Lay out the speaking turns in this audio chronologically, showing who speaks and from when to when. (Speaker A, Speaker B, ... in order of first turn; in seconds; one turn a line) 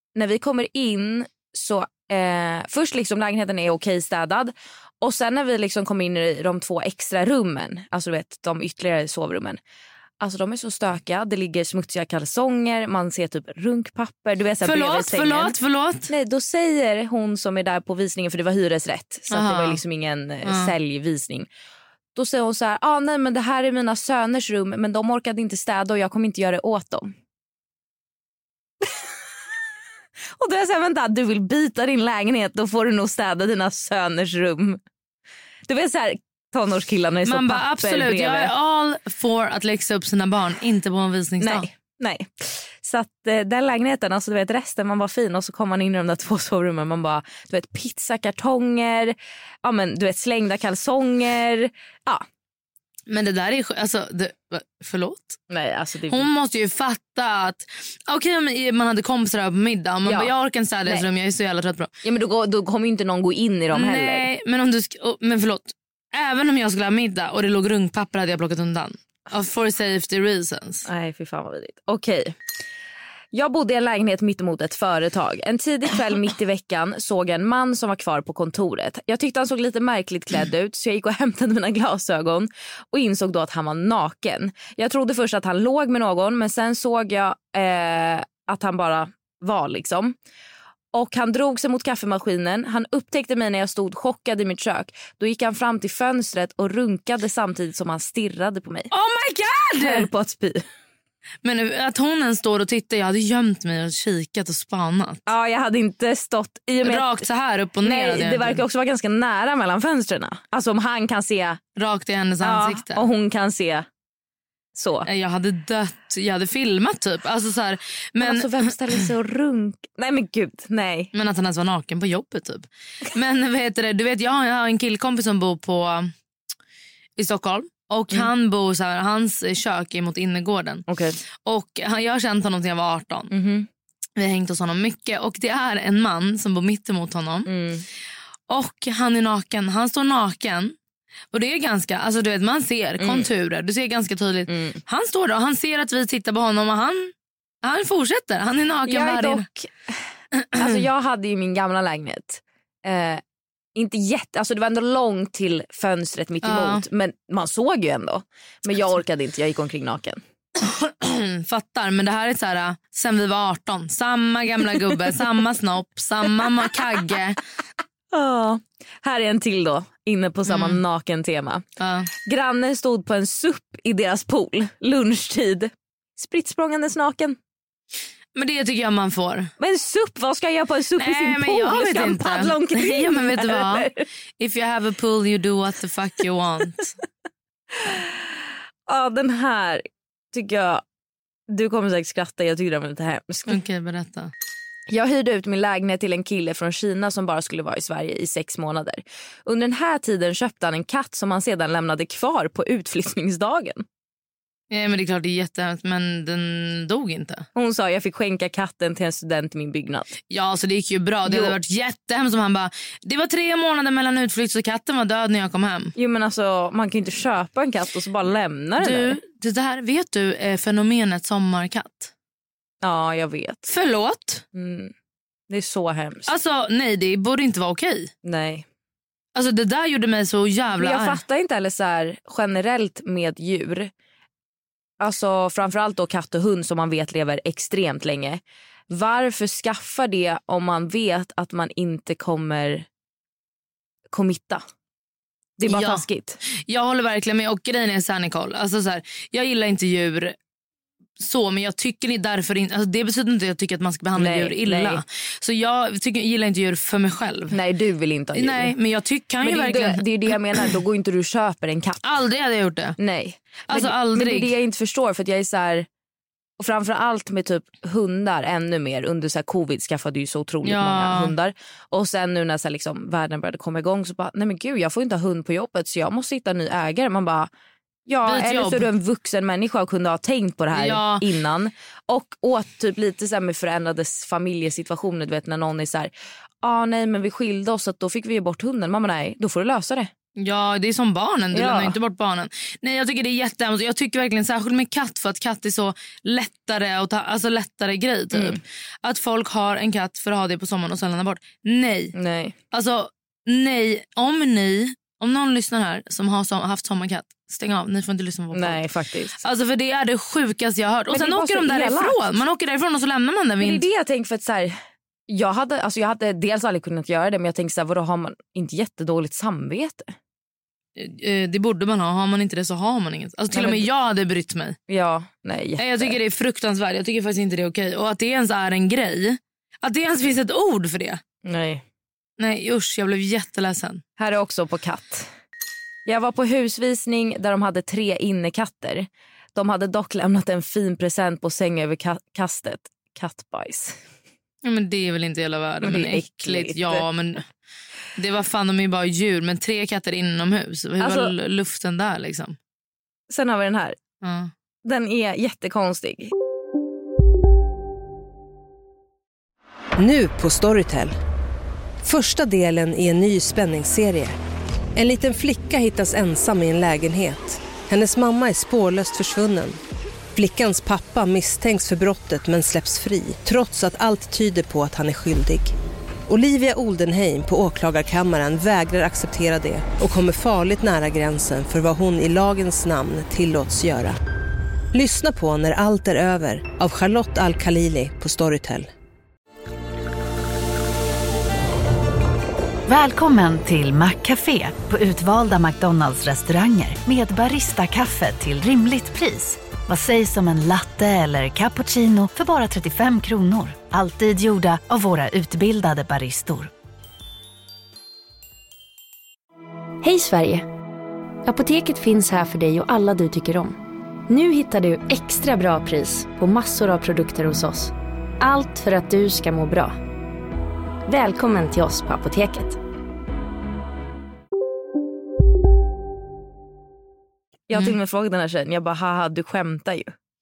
Speaker A: 0.1-9.6
Speaker A: 10.2-21.5
Speaker B: 14.6-16.1
Speaker B: 19.3-19.8
Speaker B: 20.4-20.7
Speaker A: 22.1-27.1
Speaker A: 30.4-34.8
Speaker A: 35.7-38.5
Speaker B: 37.2-41.7
Speaker A: 41.4-52.2
Speaker B: 53.1-55.4
Speaker A: 55.5-56.3
Speaker B: 56.1-61.9
Speaker A: 60.0-60.3
Speaker A: 62.0-64.3
Speaker B: 63.7-70.8
Speaker A: 70.8-72.3
Speaker A: 73.3-90.2
Speaker A: 90.9-98.9
Speaker B: 98.9-100.1
Speaker A: 99.8-100.6
Speaker B: 101.4-105.2
Speaker A: 105.3-107.2
Speaker B: 106.8-108.6
Speaker A: 107.8-111.6
Speaker B: 111.8-113.0
Speaker A: 112.4-113.8
Speaker A: 114.7-115.1
Speaker B: 115.0-119.0
Speaker A: 118.2-121.1
Speaker B: 121.1-126.1
Speaker B: 127.2-130.8
Speaker A: 130.9-131.2
Speaker B: 131.4-133.3
Speaker A: 133.3-133.7
Speaker B: 134.2-137.5
Speaker A: 137.4-137.8
Speaker B: 138.5-140.7
Speaker B: 141.3-147.1
Speaker A: 143.0-143.3
Speaker A: 144.5-144.8
Speaker B: 147.6-149.4
Speaker A: 148.8-149.9
Speaker A: 150.6-153.2
Speaker A: 153.7-160.2
Speaker B: 156.4-156.8
Speaker B: 160.6-167.4
Speaker A: 168.1-171.6
Speaker B: 170.5-170.8
Speaker B: 171.8-172.1
Speaker A: 172.2-177.4
Speaker B: 178.3-179.5
Speaker A: 179.6-184.1
Speaker B: 181.0-186.9
Speaker A: 187.7-188.1
Speaker A: 188.9-190.8
Speaker A: 191.5-193.6
Speaker B: 193.5-194.3
Speaker A: 194.9-203.8
Speaker B: 204.7-207.4
Speaker A: 207.5-210.2
Speaker B: 210.3-215.9
Speaker A: 211.2-211.6
Speaker A: 215.9-219.2
Speaker B: 218.8-222.1
Speaker A: 222.8-223.7
Speaker B: 223.7-224.4
Speaker A: 224.5-224.9
Speaker A: 225.5-226.3
Speaker B: 226.3-228.1
Speaker A: 228.2-228.6
Speaker B: 229.3-231.2
Speaker A: 230.8-233.9
Speaker A: 235.0-242.8
Speaker A: 244.1-244.6
Speaker A: 245.6-246.4
Speaker B: 245.7-250.3
Speaker B: 251.2-257.6
Speaker A: 254.1-255.0
Speaker A: 257.5-258.7
Speaker B: 258.3-260.7
Speaker A: 259.4-262.0
Speaker B: 262.0-262.9
Speaker A: 263.0-265.9
Speaker B: 263.7-264.5
Speaker A: 266.6-277.5
Speaker B: 270.6-271.3
Speaker A: 278.1-286.1
Speaker B: 278.2-278.9
Speaker B: 280.7-281.2
Speaker A: 286.6-290.1
Speaker B: 290.4-302.1
Speaker A: 291.5-292.0
Speaker A: 298.3-298.6
Speaker A: 302.1-302.5
Speaker B: 302.7-308.9
Speaker A: 308.5-309.4
Speaker B: 309.4-313.9
Speaker A: 311.1-312.4
Speaker A: 313.6-314.7
Speaker A: 315.3-320.1
Speaker B: 321.0-324.8
Speaker A: 323.5-323.9
Speaker A: 324.9-326.2
Speaker B: 325.8-331.2
Speaker A: 331.4-331.8
Speaker B: 332.4-334.0
Speaker A: 334.2-335.3
Speaker A: 336.1-344.0
Speaker B: 344.6-347.4
Speaker A: 345.8-347.1
Speaker B: 348.1-352.6
Speaker A: 351.0-351.3
Speaker A: 353.3-353.9
Speaker B: 354.2-354.5
Speaker A: 354.8-356.3
Speaker C: 360.0-361.1
Speaker C: 362.0-364.3
Speaker C: 364.9-369.8
Speaker C: 370.4-375.7
Speaker C: 376.3-384.2
Speaker C: 384.9-388.9
Speaker D: 392.9-406.7
Speaker E: 410.0-410.7
Speaker E: 411.4-413.8
Speaker E: 414.3-420.0
Speaker E: 421.1-422.8
Speaker A: 427.7-430.1